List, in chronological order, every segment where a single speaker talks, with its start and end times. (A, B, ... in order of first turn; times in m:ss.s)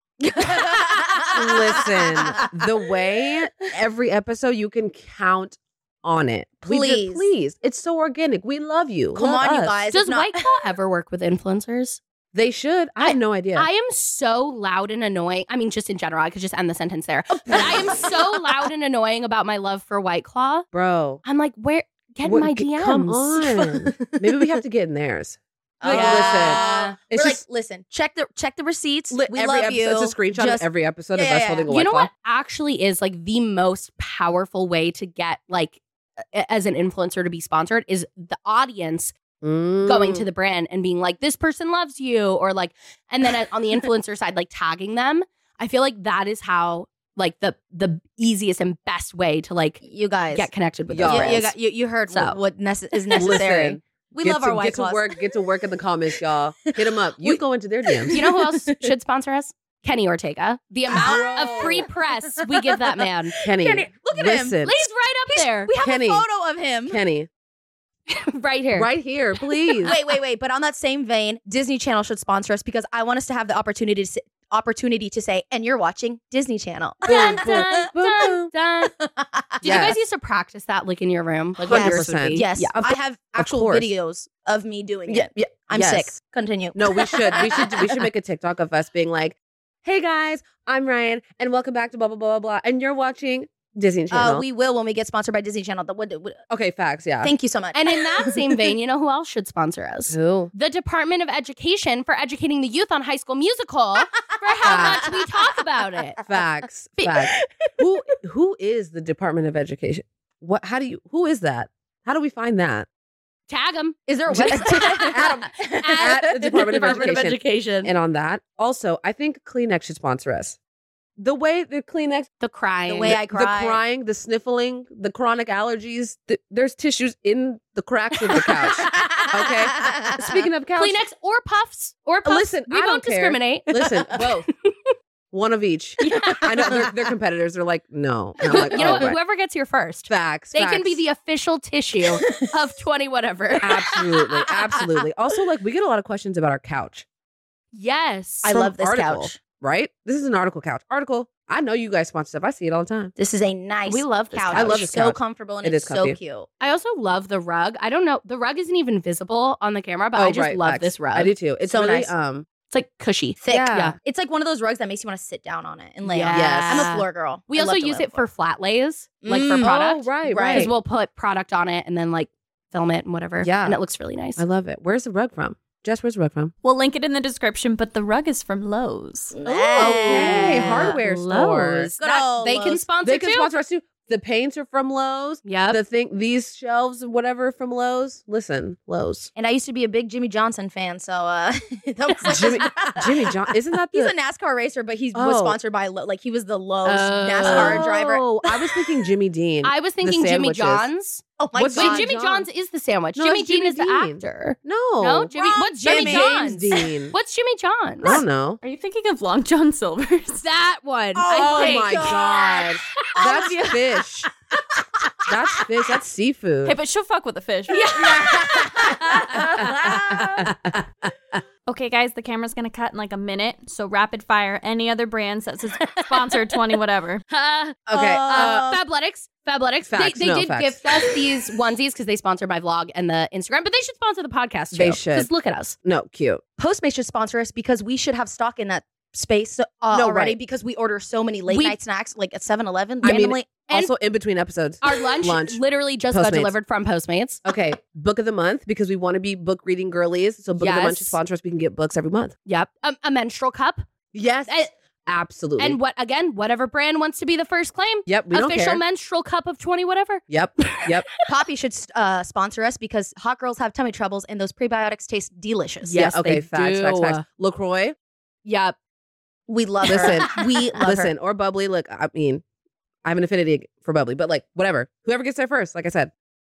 0:00.2-0:02.4 A
0:01.3-0:09.7 B
0:06.7-0:07.2 A
0:09.2-0:10.4 A
0:09.9-0:12.0 C
0:12.3-0:13.7 B
0:13.0-0:20.7 C
0:17.5-0:18.2 A
0:17.5-0:17.8 B
0:20.7-0:21.2 B
0:21.2-0:23.5 C
0:22.2-0:27.4 B
0:25.8-0:31.7 A
0:25.8-0:27.0 C
0:29.1-0:32.1 B
0:31.7-0:39.2 C
0:39.4-0:40.3 B
0:39.9-0:51.5 C
0:49.8-0:50.5 A
0:50.9-0:51.5 B
0:51.0-0:55.2 A
0:52.1-0:52.4 C
0:53.1-0:53.4 C
0:53.2-0:58.2 B
0:57.9-0:58.8 A
0:58.1-1:03.4 C
1:00.9-1:04.6 A
1:00.9-1:01.9 B
1:03.4-1:04.8 B
1:04.6-1:05.7 C
1:05.3-1:07.0 A
1:05.8-1:06.2 B
1:06.9-1:07.3 B
1:08.1-1:08.9 C
1:08.7-1:10.0 B
1:09.4-1:10.0 C
1:09.8-1:17.9 A
1:17.0-1:18.9 C
1:17.1-1:18.5 B
1:19.0-1:19.8 A
1:19.6-1:22.7 C
1:19.6-1:20.0 B
1:21.6-1:23.9 B
1:21.7-1:28.1 A
1:25.1-1:26.1 B
1:26.7-1:34.4 B
1:34.1-1:36.4 A
1:36.5-1:37.3 B
1:37.2-1:38.6 A
1:37.7-1:46.2 C
1:40.1-1:40.5 B
1:44.1-1:45.3 A
1:44.6-1:45.1 B
1:46.3-1:52.9 B
1:53.5-1:57.9 C
1:54.1-1:57.1 A
1:54.3-2:00.6 B
2:01.2-2:02.3 B
2:02.4-2:03.2 C
2:02.9-2:03.8 A
2:03.0-2:11.0 B
2:08.3-2:08.8 C
2:08.8-2:10.3 A
2:10.8-2:14.7 C
2:12.2-2:14.5 B
2:15.3-2:19.2 B
2:16.0-2:16.9 C
2:16.3-2:16.9 A
2:18.4-2:19.1 A
2:18.4-2:24.0 C
2:20.1-2:21.0 B
2:22.1-2:22.5 A
2:23.6-2:27.0 B
2:27.7-2:28.6 C
2:28.4-2:29.4 A
2:28.5-2:33.1 B
2:33.2-2:36.5 A
2:33.9-2:34.9 C
2:34.5-2:36.2 B
2:36.6-2:41.3 C
2:40.2-2:42.5 B
2:41.7-2:42.1 A
2:42.7-2:44.0 C
2:43.4-2:48.2 A
2:43.5-2:44.0 B
2:46.1-2:54.4 C
2:46.3-2:46.9 B
2:49.2-2:49.7 A
2:49.6-2:50.7 B
2:50.2-2:50.7 A
2:53.4-2:53.8 B
2:54.4-2:56.5 B
2:56.6-2:59.4 D
2:59.3-3:01.0 A
2:59.5-3:03.5 C
2:59.7-3:01.9 B
3:02.0-3:02.8 A
3:03.0-3:09.3 B
3:05.4-3:05.8 C
3:09.4-3:13.3 A
3:12.2-3:14.1 B
3:13.9-3:18.4 A
3:15.1-3:15.6 B
3:16.8-3:17.9 C
3:17.4-3:20.9 B
3:19.6-3:28.2 C
3:21.4-3:22.1 A
3:21.6-3:22.5 B
3:23.2-3:27.2 B
3:25.3-3:26.9 A
3:28.0-3:28.6 B
3:28.6-3:30.5 D
3:30.4-3:33.9 C
3:31.2-3:33.7 A
3:31.3-3:34.3 B
3:35.3-3:36.8 B
3:36.6-3:38.0 D
3:37.7-3:40.0 C
3:37.8-3:40.5 A
3:39.3-3:40.9 B
3:41.7-3:47.2 D
3:47.3-3:55.8 C
3:47.9-3:48.7 B
3:47.9-3:48.8 A
3:49.9-3:51.1 B
3:54.7-3:55.3 B
3:55.8-3:56.4 B
3:56.6-4:03.5 A
3:59.9-4:00.4 B
4:01.5-4:01.8 C
4:03.0-4:05.6 B
4:03.0-4:03.9 C
4:04.8-4:07.4 C
4:06.1-4:06.5 B
4:07.4-4:12.4 B
4:10.6-4:11.2 C
4:12.5-4:13.9 C
4:14.1-4:15.8 B
4:14.5-4:14.7 C
4:15.6-4:20.9 C
4:18.1-4:18.8 B
4:20.3-4:21.1 B
4:21.2-4:26.1 A
4:25.8-4:27.2 C
4:25.9-4:28.0 B
4:28.4-4:28.8 C
4:29.5-4:31.1 A
4:29.8-4:30.5 C
4:29.9-4:32.4 B
4:33.0-4:36.1 B